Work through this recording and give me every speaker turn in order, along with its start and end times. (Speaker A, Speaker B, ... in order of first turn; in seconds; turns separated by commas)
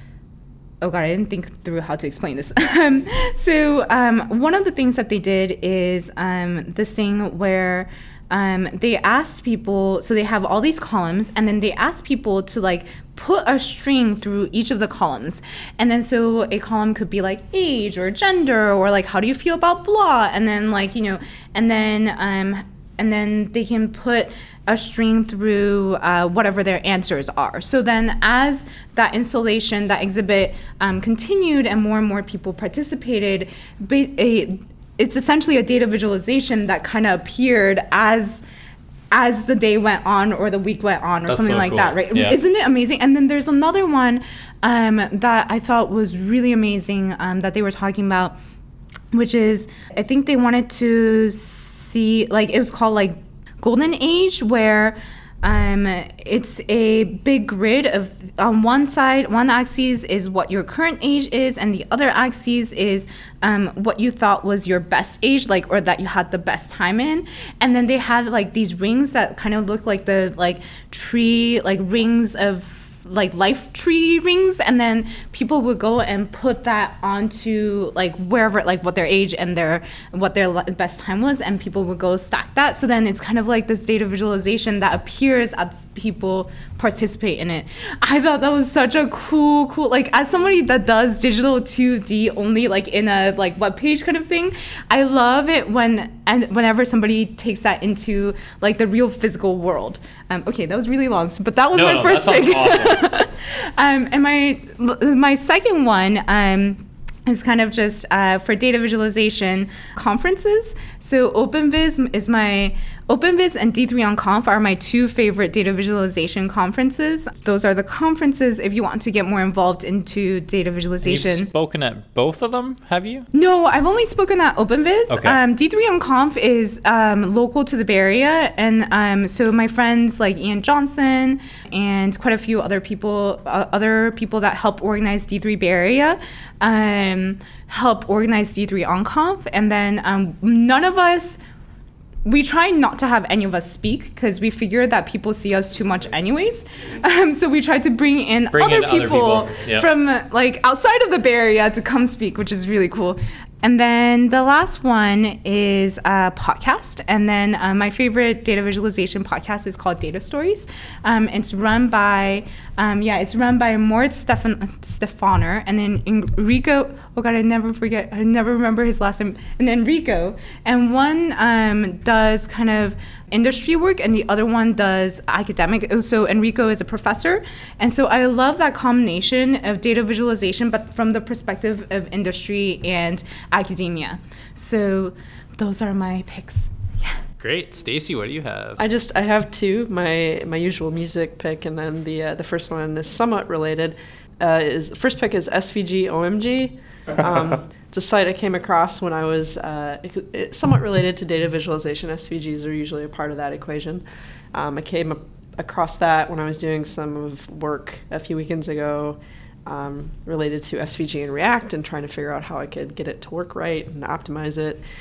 Speaker A: 0.8-38.4, Speaker A: 39.1-48.4, Speaker B: 41.3-42.4, Speaker A: 49.1-121.5, Speaker B: 101.7-103.1, Speaker B: 121.0-123.3, Speaker A: 123.3-141.4, Speaker B: 125.1-125.4, Speaker A: 142.2-187.2, Speaker B: 148.5-149.9, Speaker B: 187.4-188.8, Speaker C: 188.8-214.8